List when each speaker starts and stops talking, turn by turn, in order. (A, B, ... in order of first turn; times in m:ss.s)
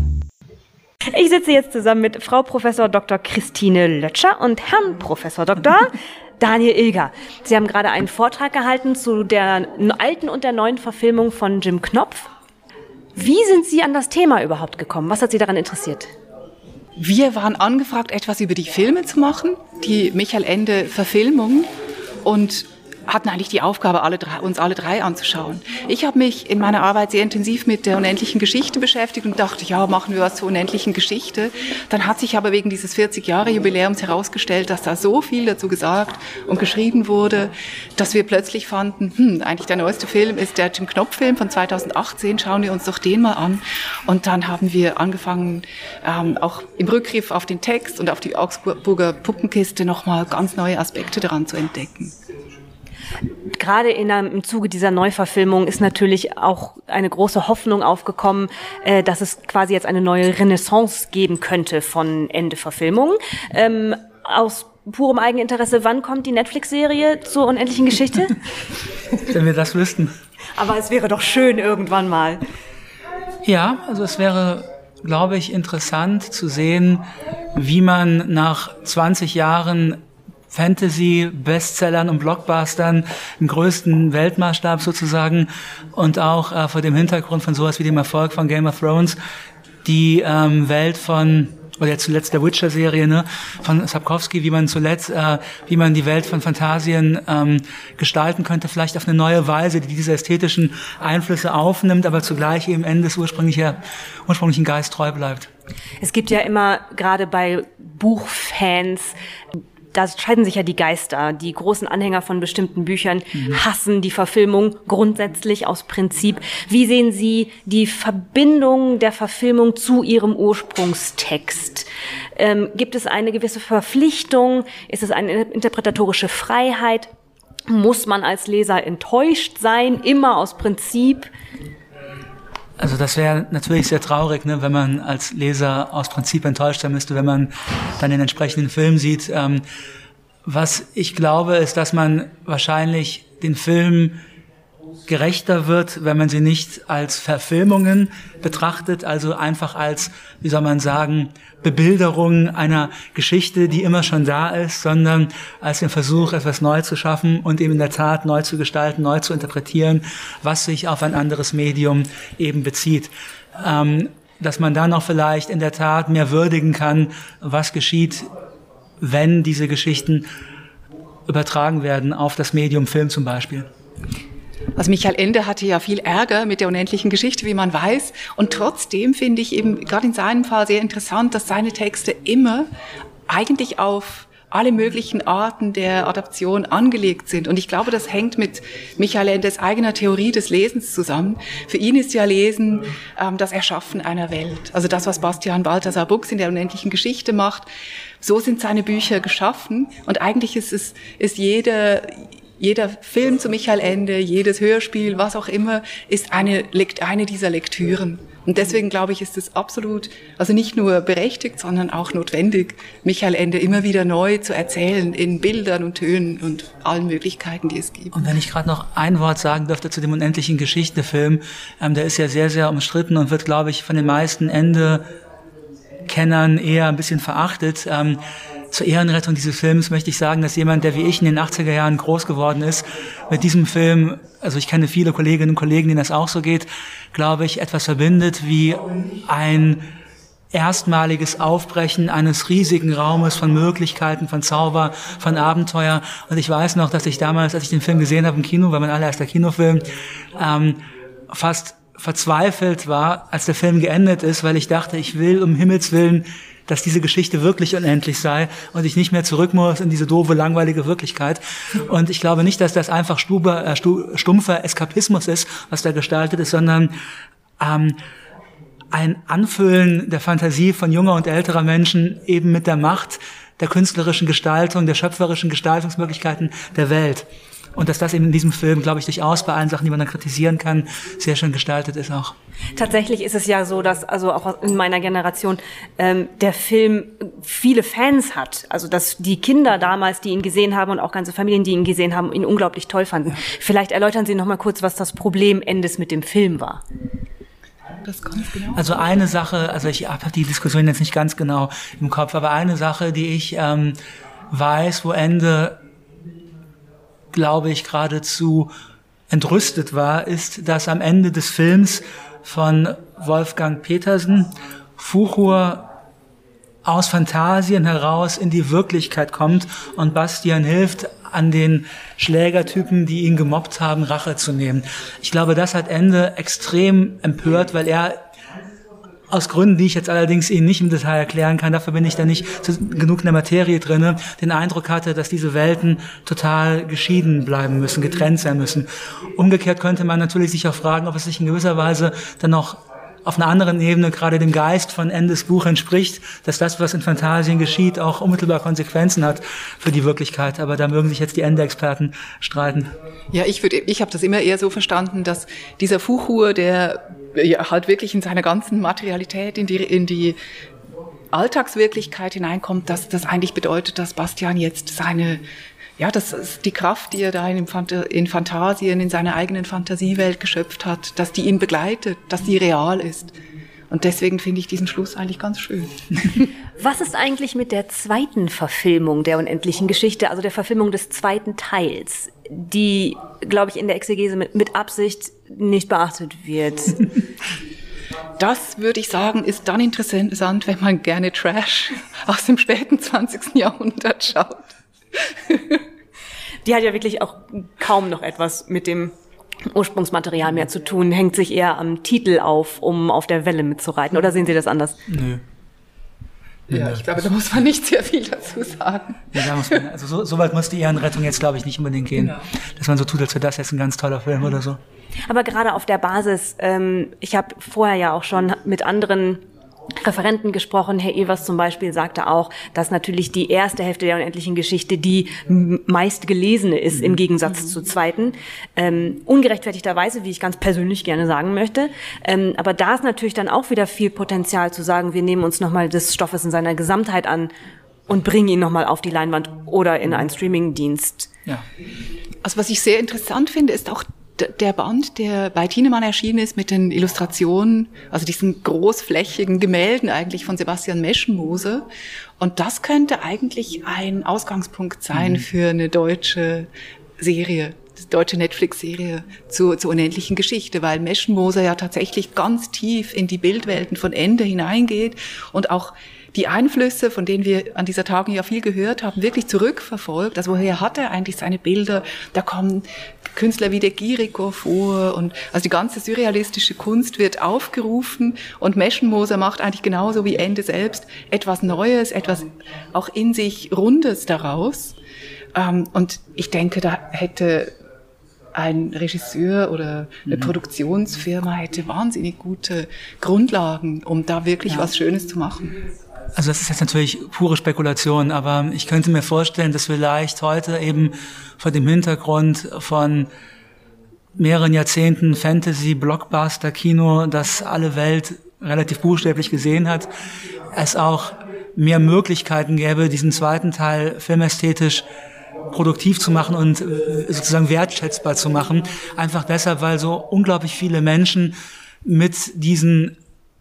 0:01.1-0:12.3 A
0:13.1-0:16.1 A
0:17.0-0:21.7 B
0:22.2-0:52.1 B
0:53.5-1:08.4 A
1:09.2-1:10.1 C
1:10.6-1:12.4 A
1:13.4-1:29.2 C
1:29.8-1:45.5 C
1:46.0-1:49.1 A
1:49.9-2:07.1 A
2:07.7-2:11.3 A
2:12.8-2:19.6 C
2:20.4-2:24.2 C
2:25.1-2:48.3 C
2:49.0-2:50.3 C
2:51.2-2:53.7 C
2:54.8-3:02.7 B
3:03.3-3:17.7 B
3:18.2-3:38.1 B
3:38.1-3:45.1 C
3:46.0-3:59.9 C
4:00.5-4:26.9 C
4:27.6-4:28.0 C
4:28.9-4:42.3 C
4:42.7-4:56.8 A
4:58.0-4:58.9 B
4:58.7-5:04.0 C
5:04.5-5:05.8 C
5:07.3-5:08.7 C
5:09.3-5:15.9 C
5:16.8-5:28.2 C
5:29.3-5:52.9 C
5:53.3-6:00.4 B
6:01.3-6:05.4 B
6:06.0-6:13.3 B
6:13.9-6:16.0 B
6:16.8-6:27.0 A
6:28.4-6:35.8 B
6:36.6-6:39.1 A
6:39.6-6:45.0 A
6:45.1-6:45.4 C
6:46.7-6:47.2 C
6:46.7-6:49.5 B
6:49.3-6:54.8 C
6:55.2-6:59.4 A
7:00.0-7:17.5 A
7:18.1-7:21.3 A
7:22.4-7:31.9 B
7:32.4-8:05.0 B
7:35.1-7:35.4 C
8:05.5-8:07.7 B
8:08.5-8:15.8 B
8:16.3-8:23.3 C
8:24.4-8:30.1 C
8:30.7-8:35.1 C
8:35.7-8:43.2 C